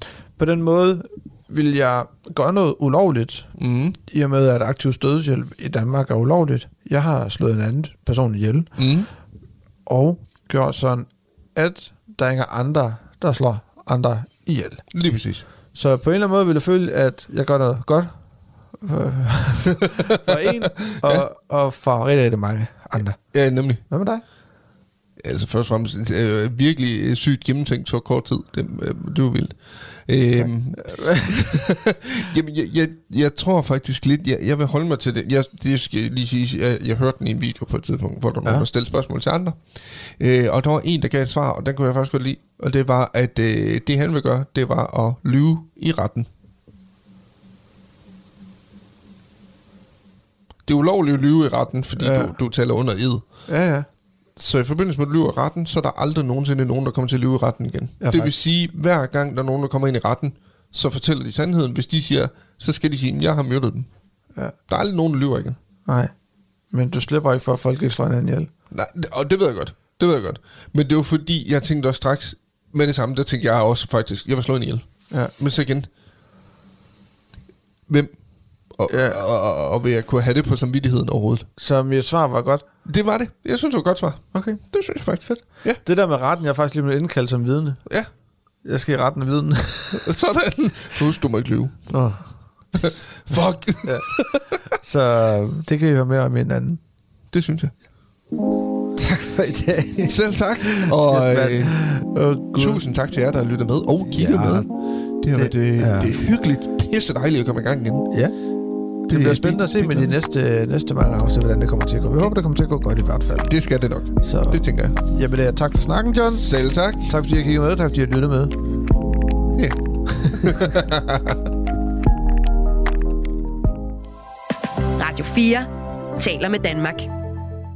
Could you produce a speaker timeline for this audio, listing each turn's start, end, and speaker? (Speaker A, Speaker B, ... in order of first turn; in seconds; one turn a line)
Speaker A: 0.4-3.5
Speaker B: 3.6-4.0
Speaker A: 4.1-8.7
Speaker B: 8.8-9.1
Speaker A: 9.9-14.8
Speaker B: 14.9-15.4
Speaker A: 15.8-18.1
Speaker A: 18.8-23.3
Speaker B: 19.9-21.2
Speaker B: 23.3-23.8
Speaker A: 23.9-24.2
Speaker B: 25.2-39.6
Speaker A: 30.4-31.7
Speaker B: 40.2-46.3
Speaker B: 50.7-53.2
Speaker A: 52.0-52.4
Speaker A: 53.5-53.9
Speaker B: 54.4-63.9
Speaker A: 58.0-58.4
Speaker B: 64.7-65.6
Speaker A: 65.9-66.1
Speaker A: 66.7-68.5
Speaker B: 68.7-75.9
Speaker B: 78.7-81.5
Speaker A: 78.9-79.2
Speaker A: 81.6-82.7
Speaker B: 82.8-85.8
Speaker A: 84.3-84.6
Speaker A: 85.2-87.8
Speaker A: 88.6-90.1
Speaker B: 90.0-91.8
Speaker A: 91.9-92.2
Speaker A: 92.8-93.0
Speaker B: 92.8-94.6
Speaker A: 93.8-96.8
Speaker B: 97.3-97.7
Speaker A: 98.9-102.9
Speaker B: 100.0-101.8
Speaker B: 102.5-108.1
Speaker A: 104.1-104.7
Speaker A: 105.3-106.3
Speaker A: 109.0-113.5
Speaker B: 109.1-110.2
Speaker B: 113.5-115.0
Speaker A: 114.2-116.5
Speaker B: 116.3-117.1
Speaker A: 117.0-118.6
Speaker B: 119.5-121.4
Speaker A: 120.1-120.6
Speaker C: 125.0-127.1